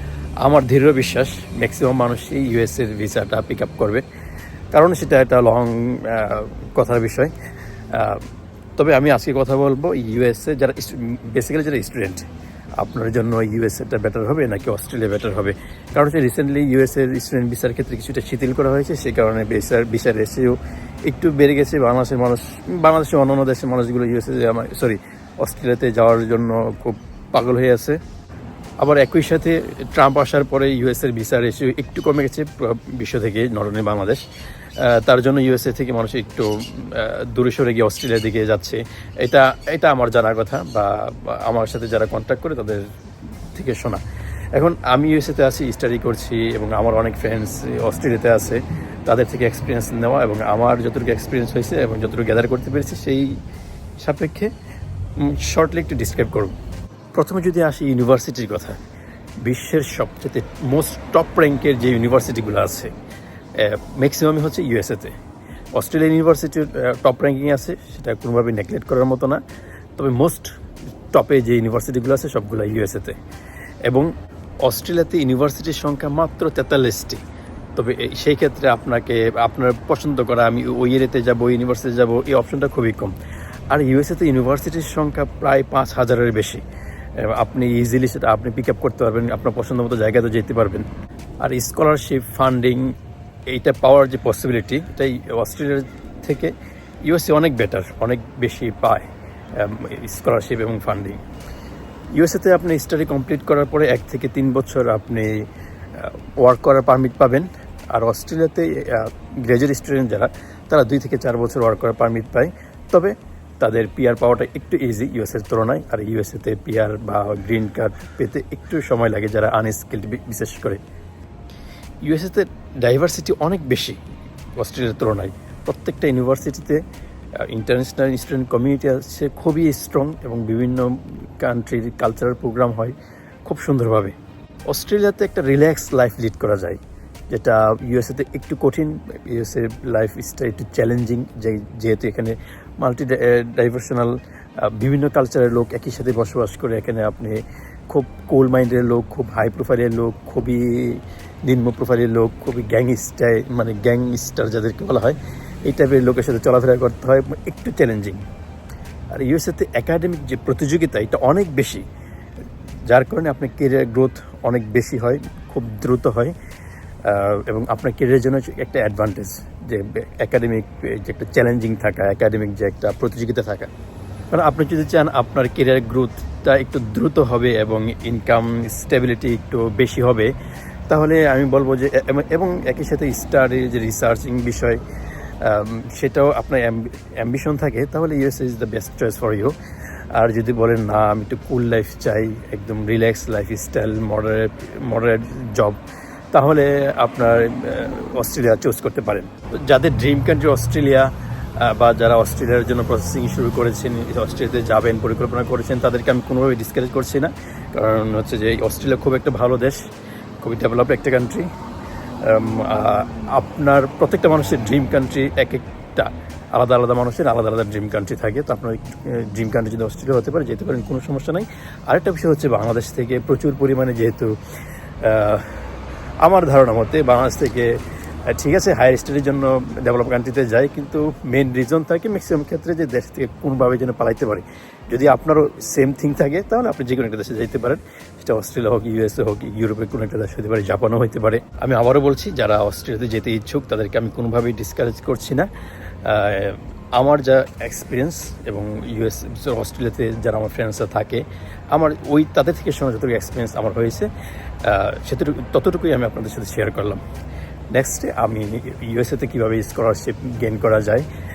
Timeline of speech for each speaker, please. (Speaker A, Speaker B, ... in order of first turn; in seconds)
Speaker A: 0.4-4.0, 4.7-7.3, 7.9-8.2, 8.8-12.2, 12.8-28.0, 28.8-34.2, 34.8-42.8, 43.5-44.0, 44.5-53.3, 54.0-54.5, 55.2-56.6, 57.1-58.8, 59.4-62.9, 63.5-65.2, 65.8-69.4, 70.0-70.5, 71.1-73.2, 73.9-74.1, 74.6-77.2, 77.8-83.2, 83.7-86.6, 87.2-90.9, 91.4-92.9, 93.5-96.5, 97.0-101.2, 102.1-120.8, 122.0-124.0, 124.6-126.8, 127.4-134.2, 134.7-158.2, 159.1-161.8, 162.9-166.3, 167.1-173.7, 174.3-180.3, 180.9-184.8, 185.4-189.6, 190.1-195.8, 196.3-209.8, 210.4-211.5, 212.2-224.3, 225.0-225.6, 226.2-245.5, 246.0-254.1, 254.6-257.0, 257.7-261.1